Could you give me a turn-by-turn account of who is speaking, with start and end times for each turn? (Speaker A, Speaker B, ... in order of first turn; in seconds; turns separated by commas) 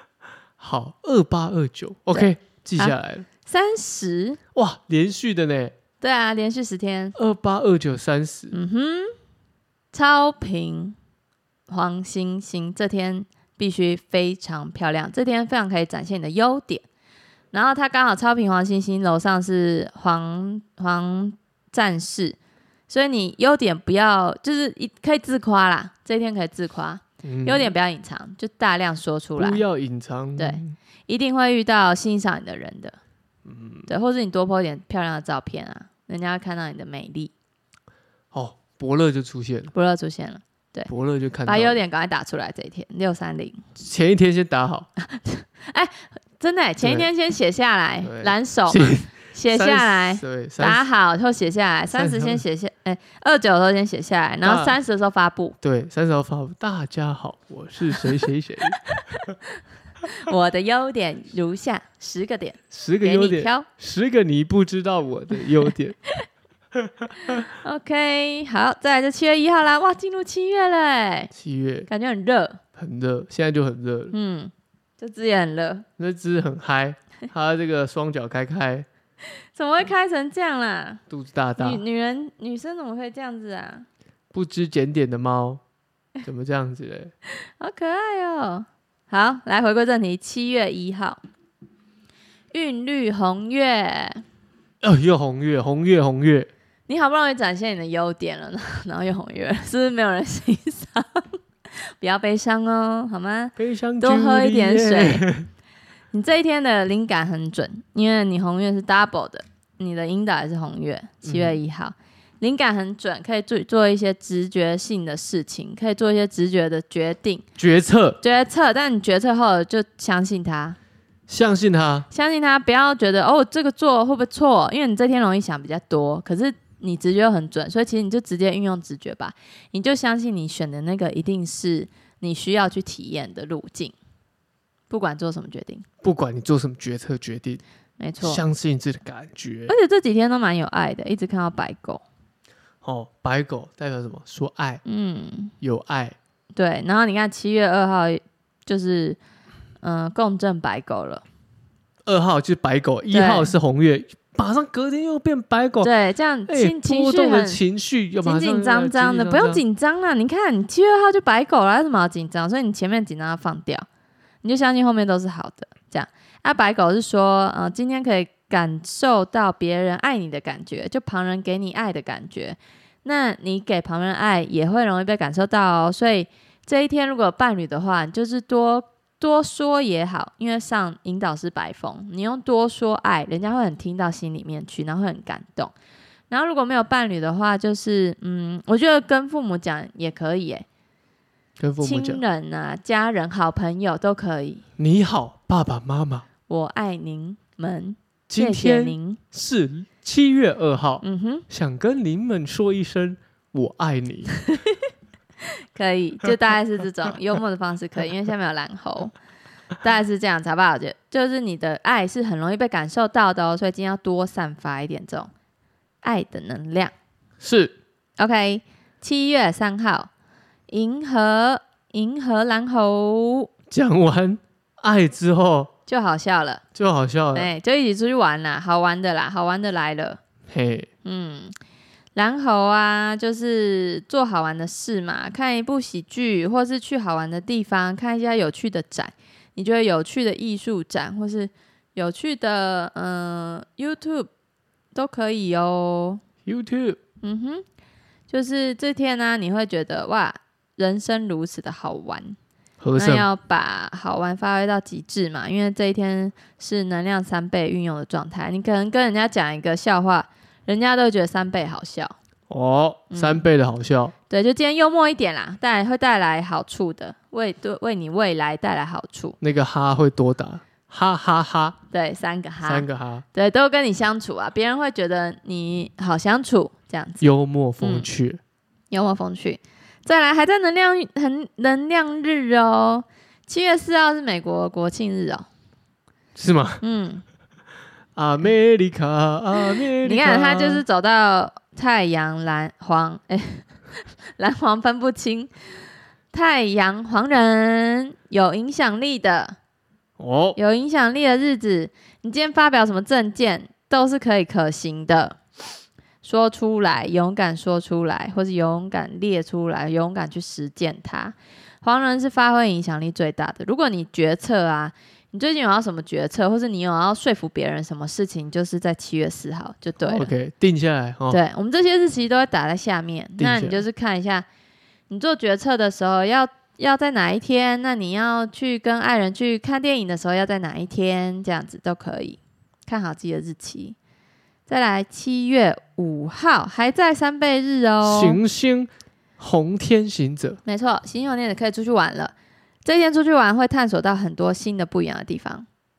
Speaker A: 0.6-3.3, Speaker B: 2.1-4.4, Speaker A: 4.5-5.8, Speaker B: 6.0-7.2, Speaker A: 7.2-8.6, Speaker B: 8.5-9.2, Speaker B: 9.9-11.0, Speaker B: 11.7-16.8, Speaker B: 17.5-22.4, Speaker B: 22.9-29.6, Speaker A: 27.2-27.7, Speaker A: 29.4-30.7, Speaker B: 30.4-33.0, Speaker A: 33.5-33.9, Speaker B: 33.9-37.3, Speaker A: 38.3-39.7, Speaker B: 39.7-40.9, Speaker A: 40.9-41.8, Speaker B: 41.5-43.6, Speaker A: 43.8-44.9, Speaker B: 45.0-55.6, Speaker A: 46.8-47.1, Speaker A: 48.0-50.8, Speaker A: 51.9-52.4, Speaker A: 54.4-54.8, Speaker A: 55.6-58.9, Speaker B: 58.9-59.5, Speaker B: 60.1-63.7, Speaker A: 62.7-66.0, Speaker A: 66.8-67.4, Speaker B: 67.2-71.3, Speaker A: 71.3-71.9, Speaker B: 71.9-72.6, Speaker A: 72.8-74.2, Speaker B: 74.1-75.9, Speaker A: 76.0-78.9, Speaker B: 79.5-81.0, Speaker A: 81.1-81.8, Speaker B: 81.6-83.9, Speaker A: 84.3-85.6, Speaker A: 86.2-87.1, Speaker B: 87.4-91.2, Speaker B: 92.5-94.2, Speaker A: 94.8-96.5, Speaker B: 96.9-105.3, Speaker A: 103.6-105.5, Speaker B: 106.1-117.5, Speaker A: 111.2-111.6, Speaker A: 117.6-118.2, Speaker B: 118.2-120.8, Speaker A: 121.3-122.1, Speaker B: 122.1-133.9, Speaker B: 134.9-135.8, Speaker A: 136.0-137.6, Speaker B: 138.0-138.4, Speaker A: 138.2-139.7, Speaker B: 139.7-142.0, Speaker A: 142.8-144.8, Speaker B: 144.8-145.5, Speaker A: 145.6-146.2, Speaker B: 146.6-149.2, Speaker B: 149.8-151.2, Speaker A: 152.1-155.9, Speaker B: 153.1-153.5, Speaker B: 155.8-157.6, Speaker A: 156.5-159.6, Speaker B: 158.2-163.9, Speaker B: 164.4-185.7, Speaker B: 186.3-190.7, Speaker A: 191.6-192.2, Speaker B: 191.8-194.6, Speaker A: 194.8-196.3, Speaker B: 196.5-199.2, Speaker A: 198.3-204.4, Speaker B: 201.0-201.4, Speaker B: 205.4-209.2, Speaker B: 209.8-215.3, Speaker B: 216.0-216.9, Speaker A: 217.4-217.8, Speaker B: 218.2-220.1, Speaker B: 220.7-223.5, Speaker A: 223.7-225.7, Speaker B: 225.9-226.6, Speaker A: 226.8-227.5, Speaker B: 227.3-230.2, Speaker A: 230.5-230.9, Speaker B: 231.1-231.5, Speaker B: 232.2-244.3, Speaker B: 244.9-246.2, Speaker A: 246.4-247.0, Speaker B: 247.2-247.6, Speaker B: 248.3-252.4, Speaker A: 252.8-253.3, Speaker B: 253.0-262.2, Speaker A: 262.5-264.1, Speaker B: 263.1-263.4, Speaker B: 264.3-269.4, Speaker A: 269.4-271.8, Speaker B: 271.9-277.3, Speaker A: 272.6-273.2, Speaker A: 277.2-278.4, Speaker B: 277.8-278.1, Speaker B: 278.9-285.5, Speaker A: 286.4-286.8, Speaker B: 286.8-287.2, Speaker A: 288.2-290.8, Speaker B: 289.7-295.5, Speaker B: 296.3-299.6, Speaker A: 300.2-300.6, Speaker B: 300.6-305.4, Speaker B: 306.2-320.3, Speaker A: 320.0-321.4, Speaker B: 321.3-324.5, Speaker A: 323.4-323.8, Speaker B: 325.1-334.0, Speaker B: 334.7-338.4, Speaker A: 338.0-340.6, Speaker B: 340.6-342.3, Speaker B: 342.9-345.7